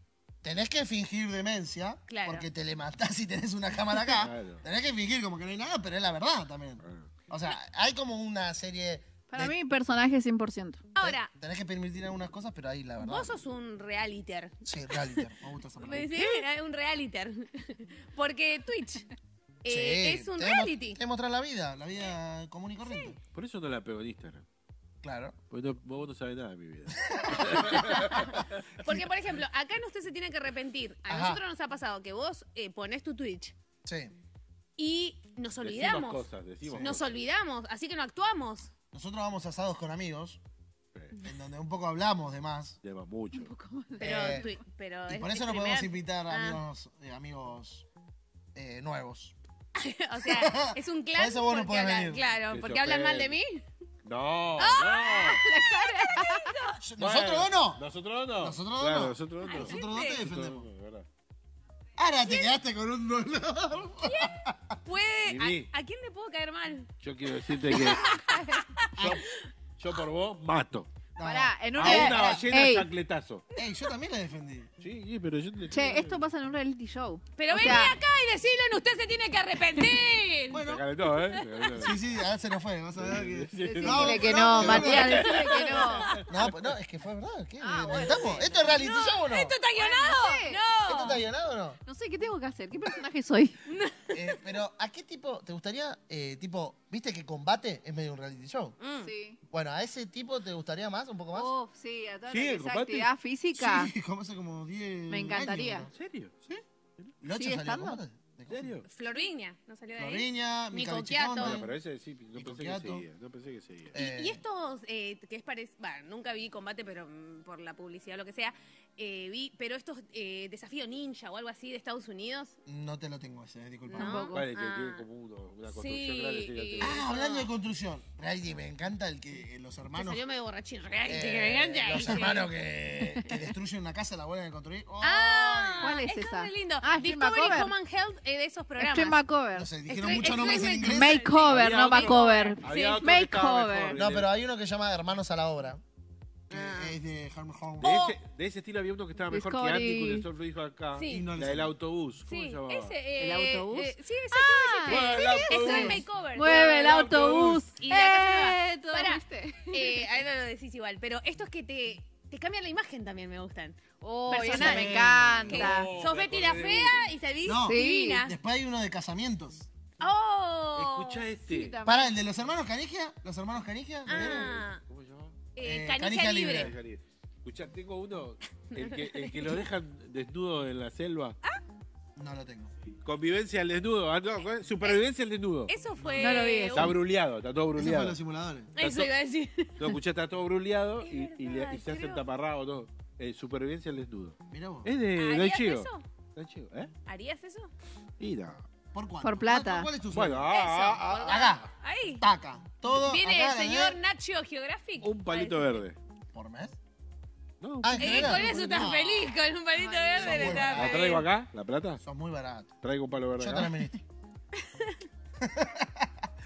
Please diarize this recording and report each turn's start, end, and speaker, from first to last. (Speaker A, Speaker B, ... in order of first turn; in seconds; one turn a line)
Speaker A: 0.4-9.6
Speaker B: 2.1-2.5
Speaker C: 4.1-4.6
Speaker C: 6.8-7.1
Speaker D: 9.3-10.8
Speaker B: 10.9-11.3
Speaker A: 11.0-13.3
Speaker B: 13.0-15.2
Speaker A: 14.6-16.4
Speaker B: 15.8-19.1
Speaker B: 19.6-21.0
Speaker A: 19.6-23.2
Speaker B: 22.8-23.1
Speaker C: 23.3-24.4
Speaker A: 25.0-25.4
Speaker C: 25.5-28.6
Speaker A: 27.0-28.2
Speaker B: 27.7-33.5
Speaker A: 31.1-31.4
Speaker A: 33.8-34.1
Speaker B: 34.8-38.7
Speaker C: 35.6-37.1
Speaker A: 36.6-37.0
Speaker A: 38.9-40.4
Speaker A: 41.2-42.8
Speaker C: 42.8-43.5
Speaker D: 43.3-44.5
Speaker A: 44.0-44.5
Speaker B: 44.0-46.6
Speaker A: 45.1-47.9
Speaker A: 48.5-49.3
Speaker B: 49.8-53.6
Speaker A: 50.2-52.3
Speaker C: 52.5-53.3
Speaker C: 54.0-55.4
Speaker B: 54.6-56.8
Speaker D: 55.4-56.5
Speaker A: 56.8-57.8
Speaker C: 57.0-61.1
Speaker A: 58.4-60.7
Speaker B: 59.4-60.2
Speaker A: 62.0-64.8
Speaker B: 62.2-62.5
Speaker B: 64.0-66.9
Speaker C: 65.2-65.7
Speaker C: 67.0-68.2
Speaker B: 67.4-69.3
Speaker C: 69.0-69.2
Speaker A: 69.0-69.2
Speaker C: 69.8-70.9
Speaker A: 71.2-72.5
Speaker D: 71.2-72.9
Speaker C: 71.8-73.4
Speaker A: 73.5-74.7
Speaker C: 74.8-76.2
Speaker D: 75.7-78.0
Speaker B: 77.4-82.0
Speaker A: 80.5-80.9
Speaker C: 80.6-82.0
Speaker A: 81.8-85.5
Speaker C: 83.0-86.7
Speaker D: 83.6-86.2
Speaker B: 85.6-86.2
Speaker A: 86.3-89.5
Speaker D: 87.6-88.6
Speaker B: 88.1-91.2
Speaker D: 89.8-90.6
Speaker A: 90.8-91.8
Speaker D: 91.8-93.6
Speaker B: 93.7-94.2
Speaker A: 94.1-98.8
Speaker B: 98.8-99.1
Speaker D: 99.0-99.4
Speaker A: 99.5-101.5
Speaker D: 101.3-103.9
Speaker C: 102.3-103.1
Speaker A: 103.5-105.9
Speaker D: 105.1-105.9
Speaker C: 105.9-106.3
Speaker A: 107.2-108.8
Speaker D: 107.3-108.0
Speaker C: 108.5-108.8
Speaker B: 108.8-111.7
Speaker A: 110.0-111.7
Speaker C: 111.4-114.0
Speaker A: 112.3-113.0
Speaker A: 113.9-114.4
Speaker B: 114.0-122.5
Speaker A: 122.7-124.3
Speaker B: 123.9-125.0
Speaker D: 123.9-124.4
Speaker C: 124.3-127.0
Speaker B: 125.7-127.5
Speaker A: 126.8-130.2
Speaker B: 129.9-132.5
Speaker A: 131.1-136.0
Speaker B: 133.2-133.4
Speaker B: 135.0-139.2
Speaker D: 135.8-137.7
Speaker D: 138.8-139.7
Speaker A: 139.5-141.3
Speaker B: 139.9-143.0
Speaker D: 140.6-144.0
Speaker C: 141.4-144.3
Speaker A: 143.9-145.8
Speaker A: 146.5-148.0
Speaker B: 146.5-146.9
Speaker B: 147.8-148.2
Speaker C: 147.8-152.9
Speaker D: 149.3-150.2
Speaker B: 150.9-151.3
Speaker A: 151.1-151.7
Speaker B: 152.2-157.1
Speaker D: 153.2-160.0
Speaker C: 154.8-157.6
Speaker B: 157.7-163.8
Speaker D: 164.0-165.9
Speaker B: 164.3-168.4
Speaker A: 164.5-165.2
Speaker C: 164.5-167.1
Speaker A: 167.4-169.7
Speaker D: 167.6-168.2
Speaker B: 170.0-171.3
Speaker C: 170.7-171.8
Speaker D: 171.4-172.1
Speaker A: 171.8-174.6
Speaker C: 174.1-175.4
Speaker B: 174.1-174.8
Speaker B: 175.5-176.7
Speaker A: 175.6-176.8
Speaker C: 176.4-181.4
Speaker B: 178.7-179.6
Speaker A: 182.2-182.7
Speaker C: 183.0-185.7
Speaker B: 185.7-187.0
Speaker A: 186.0-186.4
Speaker D: 186.2-186.9
Speaker C: 186.7-188.2
Speaker A: 187.7-188.7
Speaker B: 188.8-189.9
Speaker C: 188.8-189.1
Speaker C: 189.8-196.9
Speaker B: 191.0-192.2
Speaker A: 194.5-194.9
Speaker B: 195.1-196.0
Speaker B: 197.1-197.7
Speaker C: 198.2-198.6
Speaker A: 198.9-200.5
Speaker D: 199.2-199.9
Speaker C: 200.1-201.6
Speaker B: 200.5-202.2
Speaker A: 201.2-204.0
Speaker B: 203.0-205.8
Speaker C: 205.0-206.0
Speaker A: 206.3-206.8
Speaker C: 207.6-208.9
Speaker A: 207.8-209.4
Speaker B: 208.0-211.3
Speaker D: 209.8-210.2
Speaker A: 210.1-211.1
Speaker C: 210.2-212.0
Speaker A: 212.0-212.7
Speaker C: 212.8-213.7
Speaker A: 213.4-214.0
Speaker B: 214.6-215.0
Speaker A: 215.4-216.2